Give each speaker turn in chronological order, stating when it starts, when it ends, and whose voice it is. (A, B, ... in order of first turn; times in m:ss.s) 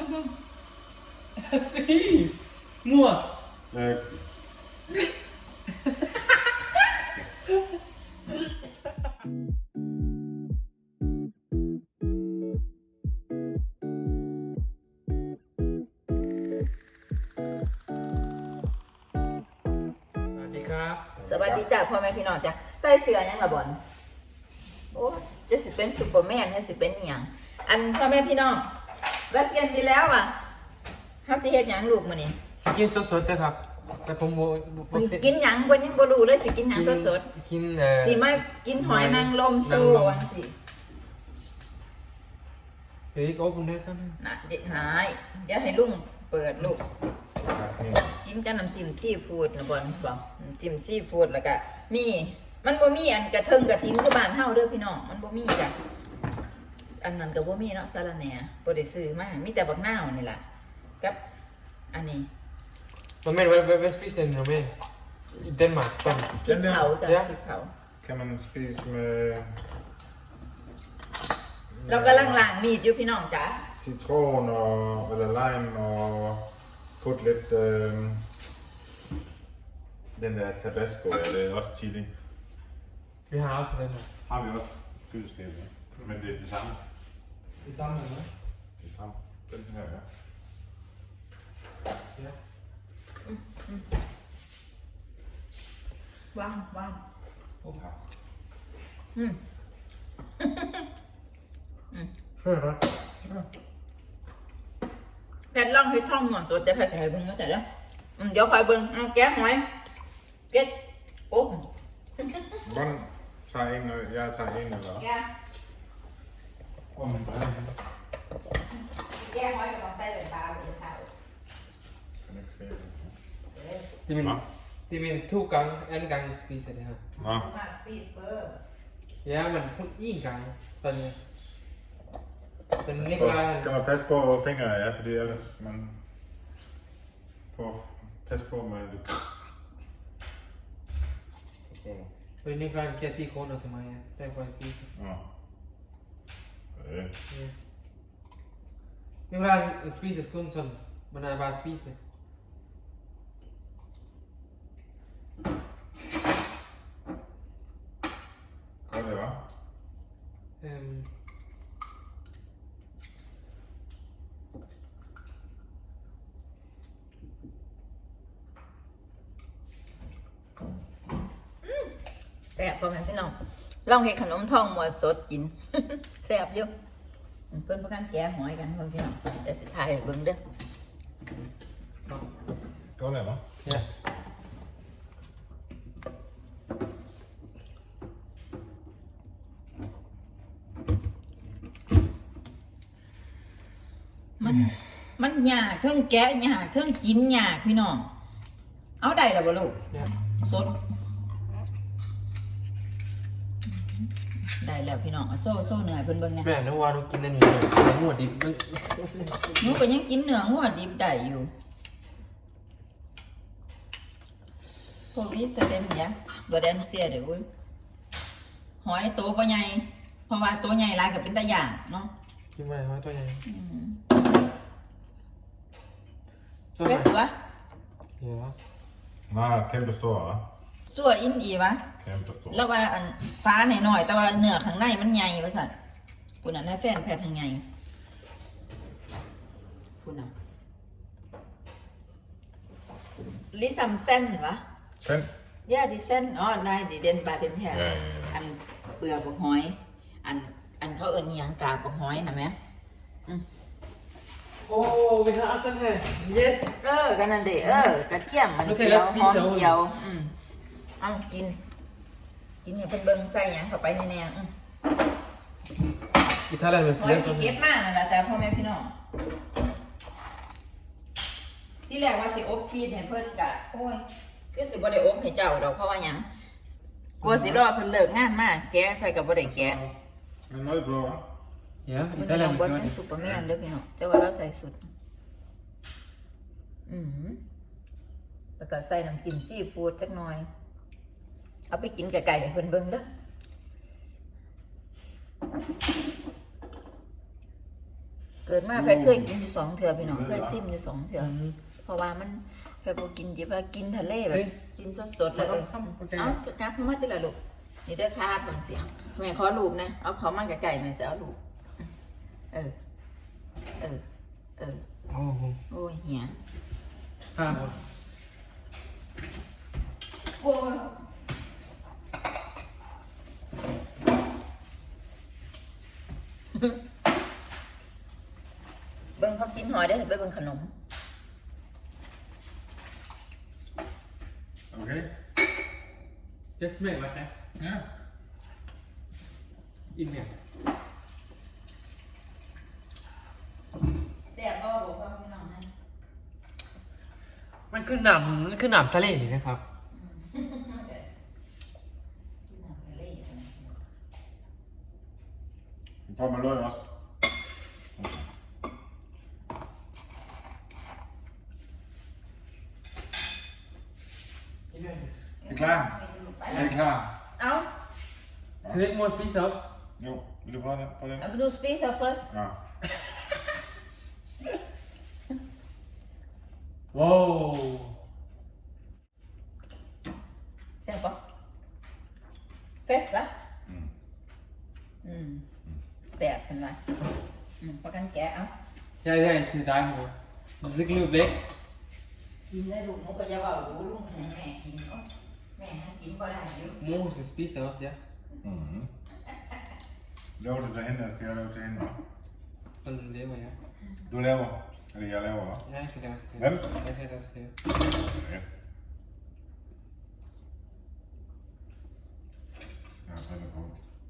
0:01.4-0:03.3 A
0:03.7-0:04.2 B
0:05.8-0:06.1 A
0:20.3-0:21.0 A
0:21.2-0:21.6 B
0:21.2-0:23.8 C
0:24.9-0:28.7 C
0:29.3-0:30.4 C
0:31.2-0:32.4 C
0:32.6-0:35.3 A
0:34.9-0:37.3 C
0:36.7-0:40.3 A
0:38.0-0:40.5 C
0:43.1-0:44.2 A
0:44.2-0:46.8 C
0:47.4-0:48.1 B
0:48.2-0:55.7 C
0:57.0-1:00.4 C
1:01.9-1:02.3 C
1:03.2-1:04.7 A
1:05.4-1:06.3 A
1:06.0-1:07.7 C
1:06.4-1:06.9 B
1:07.0-1:07.3 A
1:08.0-1:09.6 B
1:11.7-1:12.5 B
1:11.8-1:13.6 C
1:13.7-1:16.5 B
1:17.0-1:18.2 B
1:20.2-1:22.1 B
1:23.3-1:24.1 A
1:24.2-1:26.8 B
1:27.6-1:28.3 A
1:28.8-1:30.0 B
1:33.3-1:33.8 C
1:36.3-1:37.0 C
1:37.6-1:38.0 B
1:40.4-1:40.8 C
1:42.4-1:42.8 A
1:45.5-1:47.6 C
1:48.2-1:49.7 C
1:51.3-1:51.7 C
1:52.2-1:52.6 C
1:52.6-1:55.1 B
1:55.0-1:55.3 C
1:56.9-1:57.8 B
1:59.1-2:01.1 C
2:02.2-2:03.1 B
2:03.5-2:03.8 C
2:04.1-2:07.0 A
2:07.2-2:07.5 B
2:07.2-2:08.6 C
2:09.2-2:11.2 A
2:12.8-2:13.7 A
2:12.9-2:16.0 B
2:17.5-2:19.3 B
2:21.7-2:22.1 B
2:22.4-2:24.9 A
2:25.0-2:25.2 B
2:26.8-2:27.1 B
2:29.3-2:32.0 A
2:38.9-2:39.4 B
2:40.6-2:41.1 A
2:52.5-2:53.3 C
2:53.8-2:56.7 C
2:57.5-3:00.4 C
3:03.0-3:03.4 B
3:14.4-3:18.1 C
3:19.0-3:19.8 C
3:20.4-3:20.8 C
3:23.7-3:24.1 C
3:24.6-3:26.5 C
3:26.4-3:29.8 A
3:29.6-3:31.5 C
3:35.1-3:37.4 C
3:38.8-3:42.1 C
3:42.6-3:43.4 A
3:43.4-3:44.0 C
3:46.8-3:47.1 A
3:46.8-3:47.3 C
3:48.2-3:48.5 A
3:49.3-3:50.4 B
3:50.8-3:51.8 C
3:52.0-3:52.6 B
3:52.5-3:55.7 C
3:56.4-3:57.6 C
4:00.0-4:00.3 C
4:03.5-4:04.6 C
4:05.0-4:05.3 B
4:05.7-4:12.6 C
4:07.7-4:08.4 B
4:14.6-4:16.8 A
4:16.8-4:20.3 C
4:17.6-4:17.9 A
4:18.6-4:19.8 A
4:21.0-4:21.6 C
4:22.6-4:24.5 C
4:26.5-4:27.6 A
4:27.0-4:28.9 C
4:31.9-4:36.3 C
4:37.2-4:39.8 C
4:39.5-4:39.9 B
4:40.5-4:41.2 B
4:41.9-4:43.0 A
4:42.1-4:44.9 C
4:46.9-4:47.4 C
4:48.6-4:50.5 C
4:51.7-4:53.1 C
4:58.4-5:11.4 C
4:58.7-4:59.3 B
5:00.0-5:00.6 B
5:01.2-5:01.5 A
5:05.3-5:06.4 A
5:14.6-5:14.8 C
5:15.1-5:15.6 A
5:15.7-5:16.3 C
5:17.3-5:17.8 A
5:20.4-5:21.0 C
5:29.2-5:30.7 C
5:34.7-5:35.1 B
5:36.6-5:37.3 A
5:37.6-5:37.8 B
5:39.9-5:40.3 A
5:44.3-5:45.7 C
5:47.7-5:49.6 A
5:49.9-5:51.1 C
5:52.5-5:53.8 C
5:56.1-5:56.9 B
5:58.0-5:58.2 B
6:04.7-6:05.1 A
6:05.4-6:06.8 C
6:05.4-6:05.9 B
6:06.5-6:07.1 B
6:07.4-6:07.7 C
6:08.6-6:09.6 A
6:10.0-6:11.2 B
6:11.2-6:12.3 C
6:12.3-6:12.6 B
6:16.9-6:17.9 A
6:20.8-6:21.2 C
6:22.9-6:23.3 C
6:23.7-6:23.9 B
6:25.0-6:25.4 C
6:26.1-6:26.8 C
6:27.6-6:28.5 C
6:29.0-6:31.4 A
6:32.5-6:35.0 C
6:35.6-6:36.8 C
6:36.8-6:38.0 A
6:38.4-6:38.9 B
6:40.4-6:42.0 B
6:42.8-6:43.6 A
6:44.1-6:45.6 B
6:45.6-6:47.6 A
6:46.4-6:46.6 B
6:48.0-6:48.4 B
6:53.0-6:53.8 B